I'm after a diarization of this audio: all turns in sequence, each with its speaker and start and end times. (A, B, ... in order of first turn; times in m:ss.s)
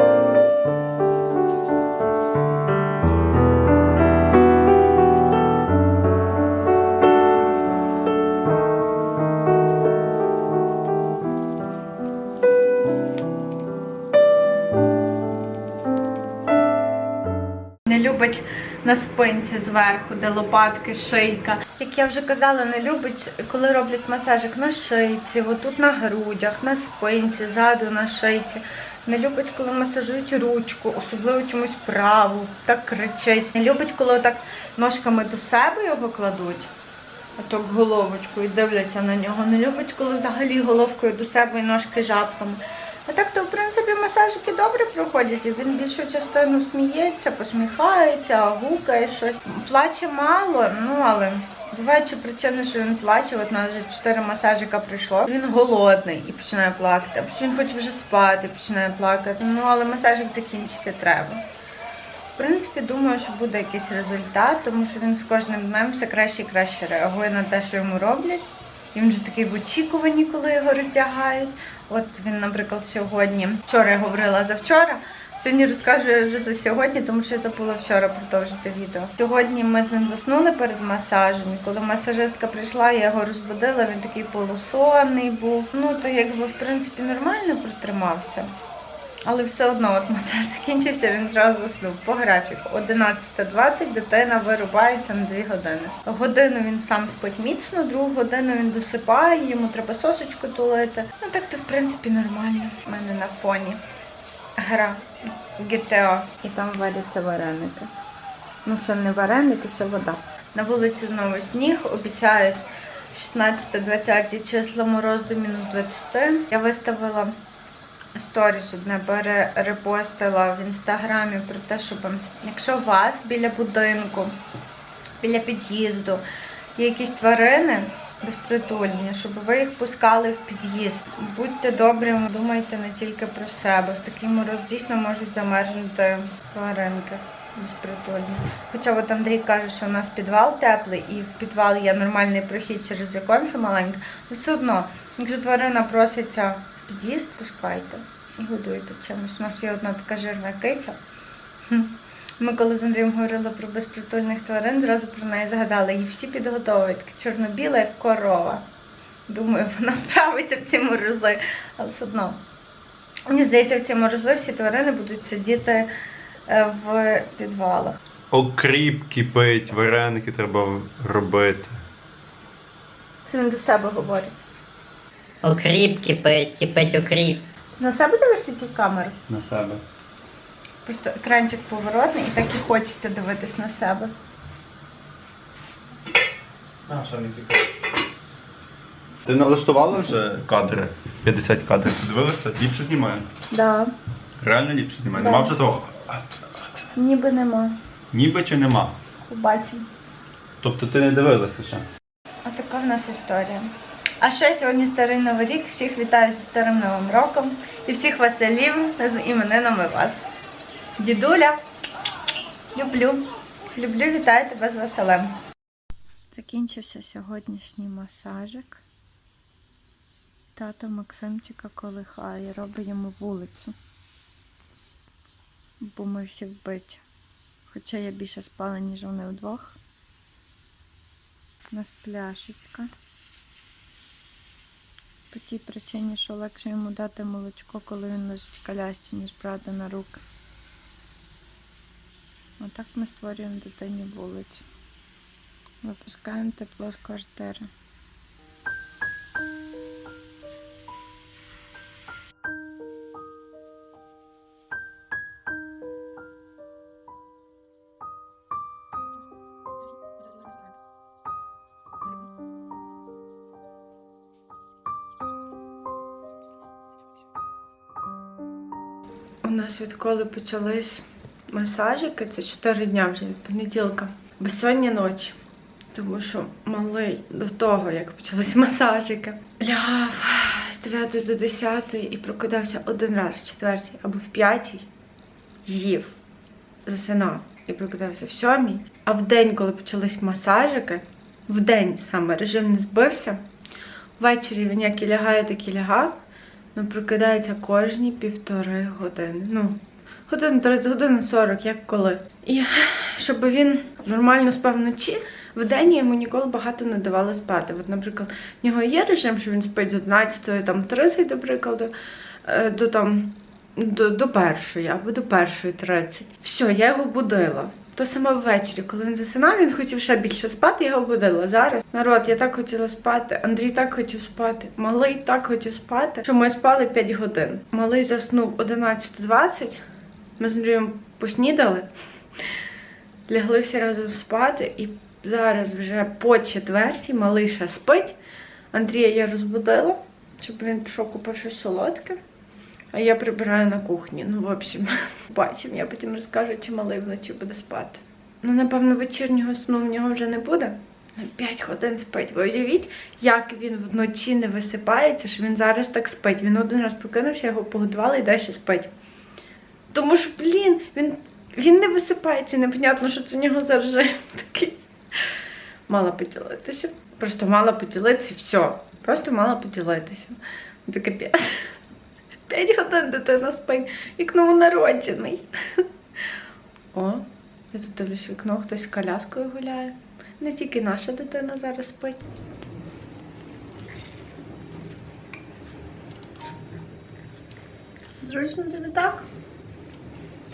0:17.9-0:36.7 A
0:37.4-1:01.4 A
1:02.4-1:28.5 A
1:29.2-1:43.8 A
1:44.6-1:47.9 A
1:48.6-1:57.4 A
1:58.2-2:04.4 A
2:05.2-2:06.2 A
2:06.8-2:31.0 A
2:31.7-2:38.6 A
2:39.3-2:42.4 A
2:43.3-2:45.9 A
2:46.5-2:48.0 A
2:48.3-2:51.8 B
2:53.3-2:54.4 A
2:55.4-2:57.4 C
2:57.8-2:59.2 A
2:59.3-2:59.8 B
3:00.8-3:04.1 A
3:06.9-3:07.7 B
3:09.2-3:13.3 B
3:13.5-3:13.9 A
3:14.4-3:16.2 B
3:15.2-3:15.6 A
3:17.0-3:17.8 A
3:18.1-3:19.0 B
3:19.3-3:19.9 A
3:20.6-3:21.9 B
3:22.4-3:30.2 A
3:31.0-3:31.6 A
3:32.7-3:35.4 A
3:36.3-3:38.8 A
3:40.6-3:43.8 A
3:45.8-3:47.0 A
3:47.7-3:49.8 A
3:51.7-3:52.9 A
3:55.3-4:00.2 A
4:02.6-4:04.7 A
4:05.8-4:07.7 A
4:29.4-4:35.4 A
4:35.9-4:44.9 A
4:45.7-4:46.2 A
4:46.9-4:53.4 A
4:54.2-4:56.2 A
4:56.7-5:11.9 A
5:12.4-5:29.8 A
5:30.4-5:31.9 A
5:33.3-5:38.2 A
5:38.7-5:42.2 A
5:42.9-5:58.9 A
5:59.9-6:04.9 A
6:05.9-6:11.7 A
6:12.5-6:15.8 A
6:16.9-6:22.2 A
6:28.2-6:29.3 A